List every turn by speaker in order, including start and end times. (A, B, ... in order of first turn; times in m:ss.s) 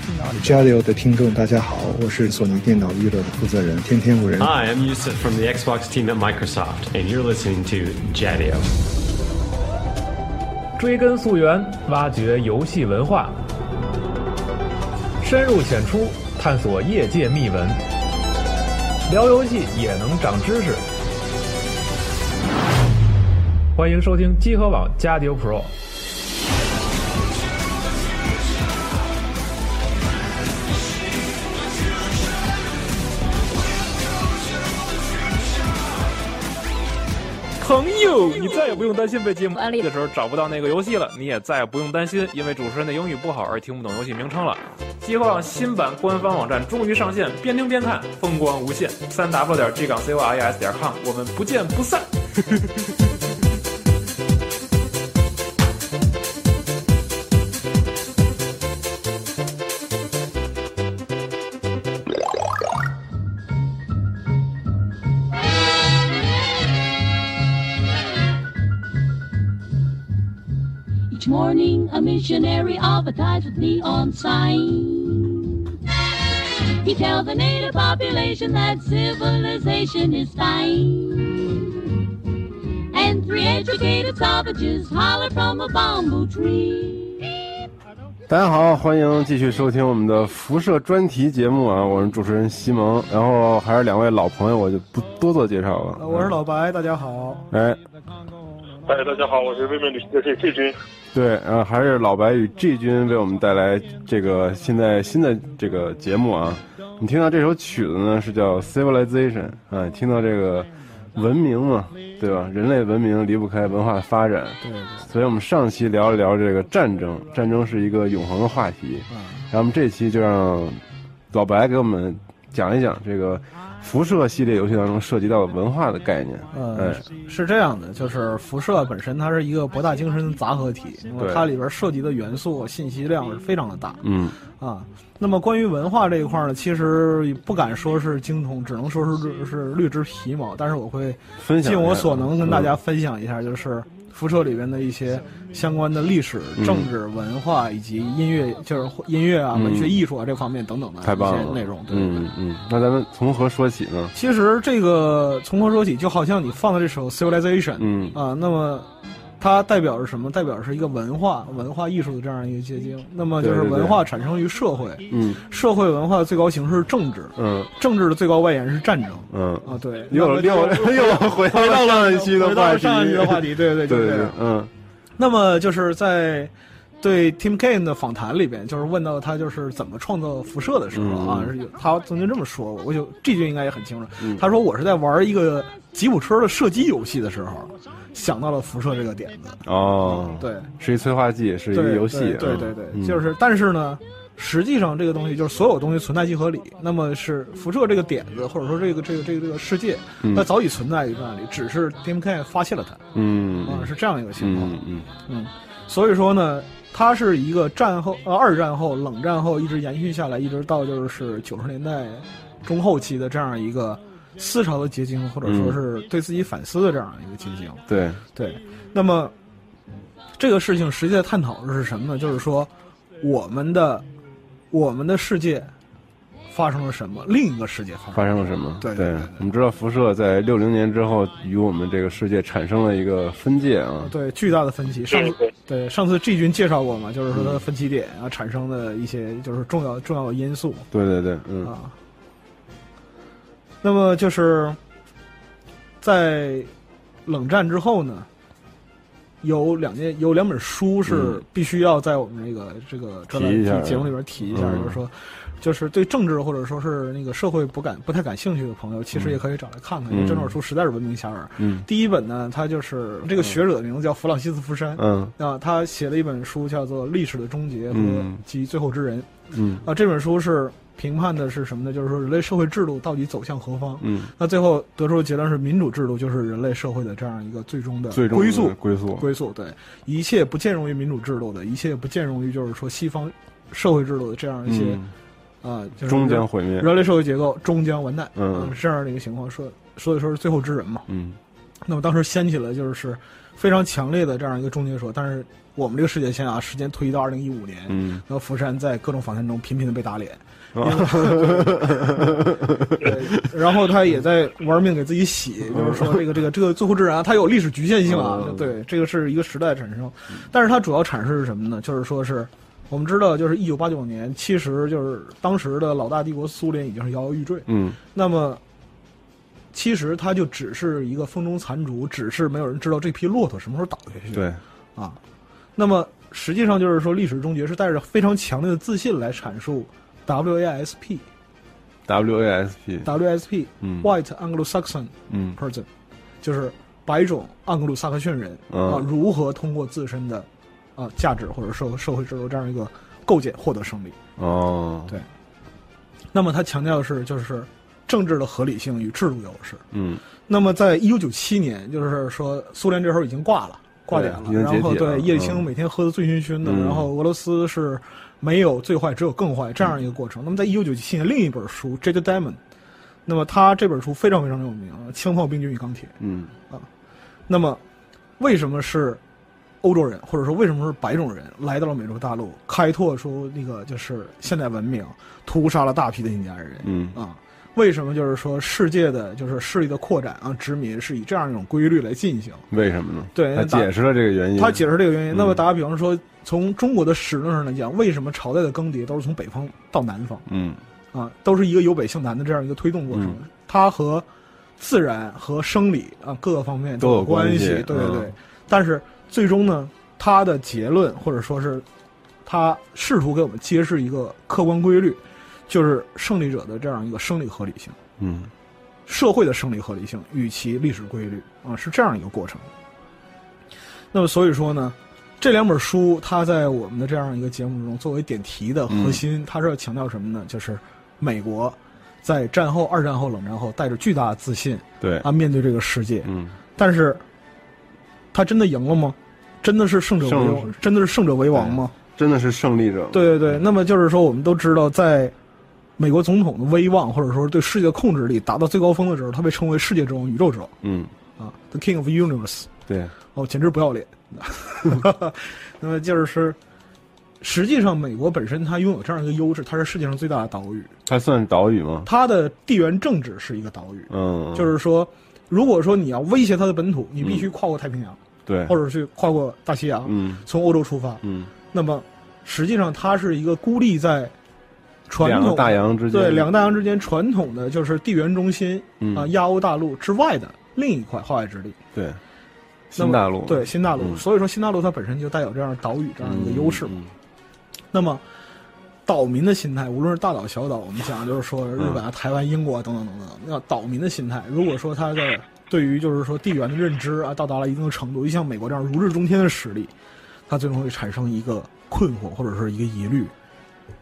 0:00.4-0:04.5 A
0:04.4-0:08.7 B
0:10.8-0:13.4 C
0:15.2-0:17.8 C
0:19.1-0:20.8 C
0:23.8-0:25.7 C
0:37.6-0:52.1 C
1:11.1-1:15.6 D
1:16.7-1:21.8 D
1:22.9-1:27.3 D
1:28.3-1:36.4 E
1:36.0-1:37.5 F
1:37.5-1:37.8 E
1:38.9-1:40.8 G
1:41.1-2:07.0 E
1:54.6-1:55.1 F
1:59.1-1:59.4 F
2:06.5-2:32.3 F
2:11.2-2:11.5 E
2:14.0-2:14.4 E
2:21.4-2:22.8 E
2:26.6-2:26.9 E
2:29.5-2:30.0 E
2:31.0-2:34.1 E
2:34.1-2:38.9 F
2:37.8-2:38.2 E
2:39.4-2:54.4 F
2:43.4-2:44.0 E
2:45.1-2:45.4 E
2:47.4-2:47.7 E
2:49.3-2:54.7 E
2:55.2-3:10.7 F
3:00.9-3:01.5 E
3:04.2-3:04.4 E
3:09.6-3:13.2 E
3:11.7-3:23.0 F
3:20.2-3:20.5 E
3:23.1-3:25.1 E
3:23.6-3:39.3 F
3:35.4-3:35.8 E
3:37.9-3:38.2 E
3:40.4-3:44.1 F
3:44.7-3:45.7 F
3:46.5-3:49.4 F
3:48.1-3:54.1 E
3:54.0-4:00.9 F
3:55.1-3:55.5 G
3:57.3-3:57.6 E
4:00.9-4:01.7 E
4:01.6-4:01.9 F
4:03.8-4:04.8 F
4:06.0-4:06.7 F
4:07.3-4:08.3 F
4:09.4-4:29.3 F
4:11.1-4:11.4 E
4:13.3-4:15.0 E
4:19.1-4:19.4 E
4:20.1-4:20.6 E
4:21.6-4:21.8 E
4:25.0-4:25.3 E
4:27.9-4:28.4 E
4:29.5-4:29.8 E
4:29.8-4:45.0 F
4:34.0-4:34.3 E
4:38.1-4:39.3 E
4:44.6-4:45.1 E
4:45.6-4:51.1 F
4:46.0-4:46.9 E
4:48.4-4:48.7 E
4:51.1-4:51.4 E
4:51.8-5:02.4 F
4:57.9-4:58.2 E
5:00.8-5:03.2 E
5:03.0-5:18.6 F
5:05.7-5:06.2 E
5:08.0-5:08.7 E
5:17.7-5:18.0 E
5:19.7-5:24.4 F
5:24.3-5:24.6 E
5:25.8-5:31.2 F
5:32.1-5:33.1 E
5:33.0-5:35.9 F
5:33.8-5:34.1 E
5:35.3-5:35.6 E
5:36.4-5:44.2 F
5:38.7-5:39.1 E
5:44.4-5:45.1 E
5:46.3-5:49.8 F
5:49.9-5:50.2 E
5:50.5-6:02.6 F
5:54.1-5:55.7 E
5:56.6-5:57.1 E
6:03.3-6:06.2 F
6:06.2-6:06.5 E
6:07.5-6:07.8 F
6:08.4-6:09.2 F
6:09.8-6:22.7 F
6:16.8-6:17.2 E
6:22.7-6:25.6 E
6:23.3-6:23.9 F
6:24.6-6:30.4 F
6:30.5-6:30.8 E
6:31.1-6:34.2 F
6:33.1-6:33.4 E
6:34.8-6:41.8 F
6:37.0-6:38.3 E
6:42.4-6:48.0 F
6:48.2-6:48.5 E
6:49.1-6:52.7 F
6:54.1-7:07.2 F
6:58.9-6:59.2 E
7:05.0-7:05.3 E
7:06.2-7:06.5 E
7:08.3-7:11.9 F
7:10.2-7:10.7 E
7:11.5-7:13.6 E
7:13.1-7:15.3 F
7:16.0-7:20.7 F
7:20.8-7:21.1 E
7:21.4-7:22.7 F
7:22.9-7:23.1 E
7:23.3-7:26.6 F
7:27.4-7:30.9 F
7:31.1-7:32.1 E
7:32.0-7:44.3 F
7:34.1-7:34.7 E
7:37.2-7:37.5 E
7:38.5-7:38.7 E
7:40.0-7:40.4 E
7:41.2-7:41.5 E
7:45.1-7:51.8 F
7:45.2-7:46.6 E
7:49.0-7:49.3 E
7:52.9-7:54.2 E
7:53.0-7:57.0 F
7:56.2-7:57.1 E
7:57.9-7:58.2 F
7:59.1-8:09.9 F
8:10.5-8:13.3 F